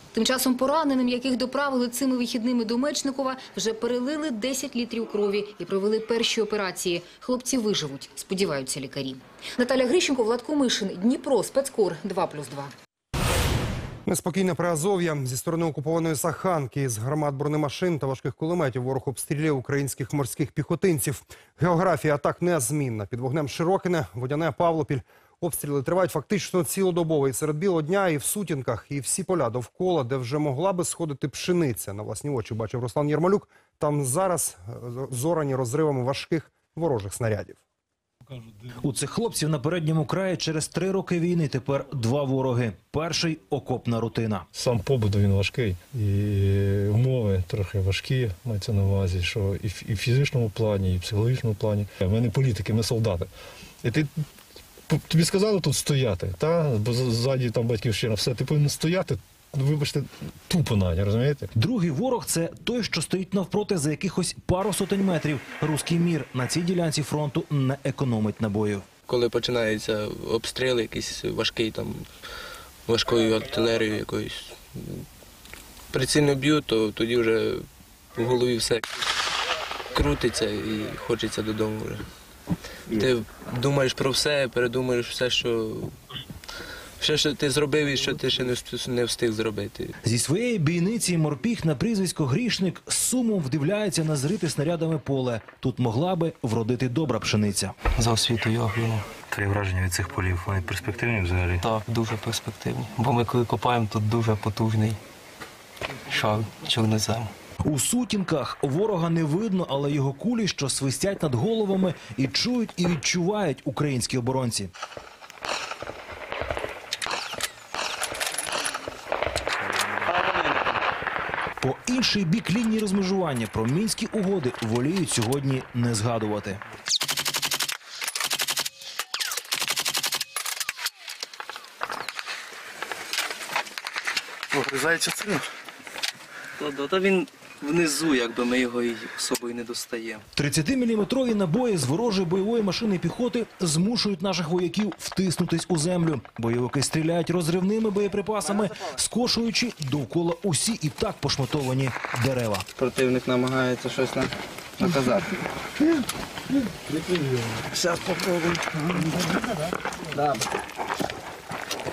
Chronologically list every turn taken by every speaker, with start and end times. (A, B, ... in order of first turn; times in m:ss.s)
0:00.1-0:12.7 A
0:14.0-0:37.6 B
0:38.8-0:44.4 C
0:44.5-0:53.3 D
0:53.8-0:54.1 D
0:54.9-1:01.5 D
1:01.6-1:08.8 C
1:09.1-1:12.1 E
1:12.8-1:15.0 E
1:15.9-1:18.9 E
1:19.9-1:22.0 E
1:22.9-1:25.9 E
1:27.0-1:29.9 E
1:30.0-1:37.7 C
1:38.0-1:39.1 F
1:39.2-1:41.6 G
1:41.6-1:45.0 F
1:46.1-1:47.3 F
1:47.6-1:54.7 C
2:01.6-2:06.6 C
2:14.5-2:15.4 F
2:16.6-2:20.2 F
2:20.4-2:32.6 C
2:32.8-2:35.2 H